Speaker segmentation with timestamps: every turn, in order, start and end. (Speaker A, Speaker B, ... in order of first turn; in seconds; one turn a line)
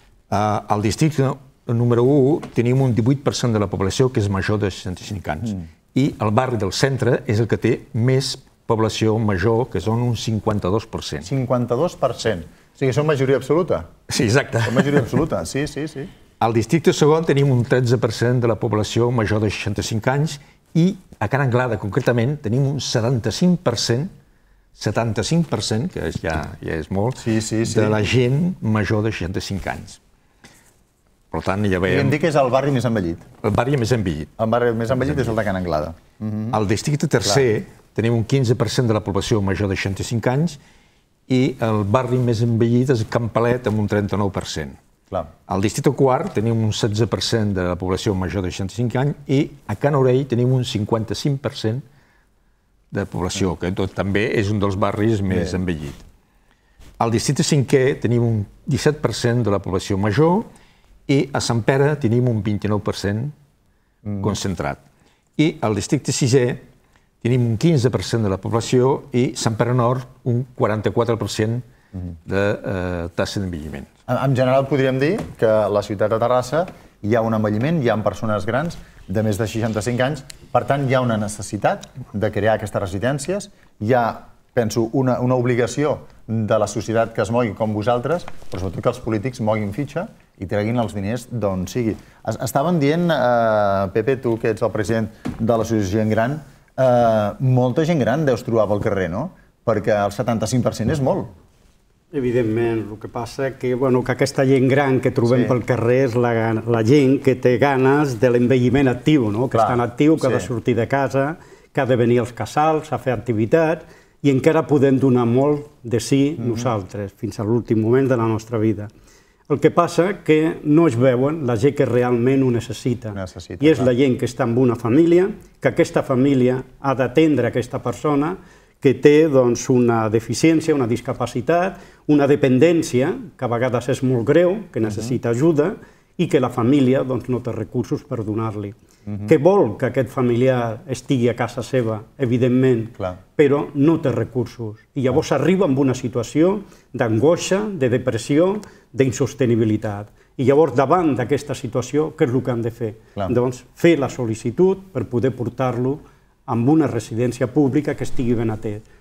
Speaker A: 0.3-11.3
Speaker B: 11.2-13.9
Speaker A: 14.1-15.1
Speaker B: 14.6-16.1
Speaker A: 16.4-24.1
Speaker A: 24.8-30.0
Speaker B: 27.2-28.0
Speaker A: 31.3-32.1
Speaker B: 31.9-33.3
Speaker A: 33.4-34.3
Speaker B: 34.4-36.6
Speaker A: 36.5-40.6
Speaker A: 41.3-44.8
Speaker A: 45.5-51.8
Speaker A: 52.9-56.0
Speaker B: 55.3-55.6
Speaker A: 57.0-60.5
Speaker A: 61.1-63.3
Speaker B: 64.0-64.3
Speaker A: 64.2-64.8
Speaker A: 65.4-66.6
Speaker A: 67.2-71.6
Speaker A: 72.2-73.9
Speaker B: 74.1-101.3
Speaker C: 102.1-118.9
Speaker B: 105.2-105.5
Speaker B: 109.5-110.5
Speaker B: 116.4-116.7
Speaker C: 119.5-138.7
Speaker B: 123.1-123.9
Speaker B: 134.8-135.1
Speaker B: 139.1-139.3
Speaker C: 139.2-158.8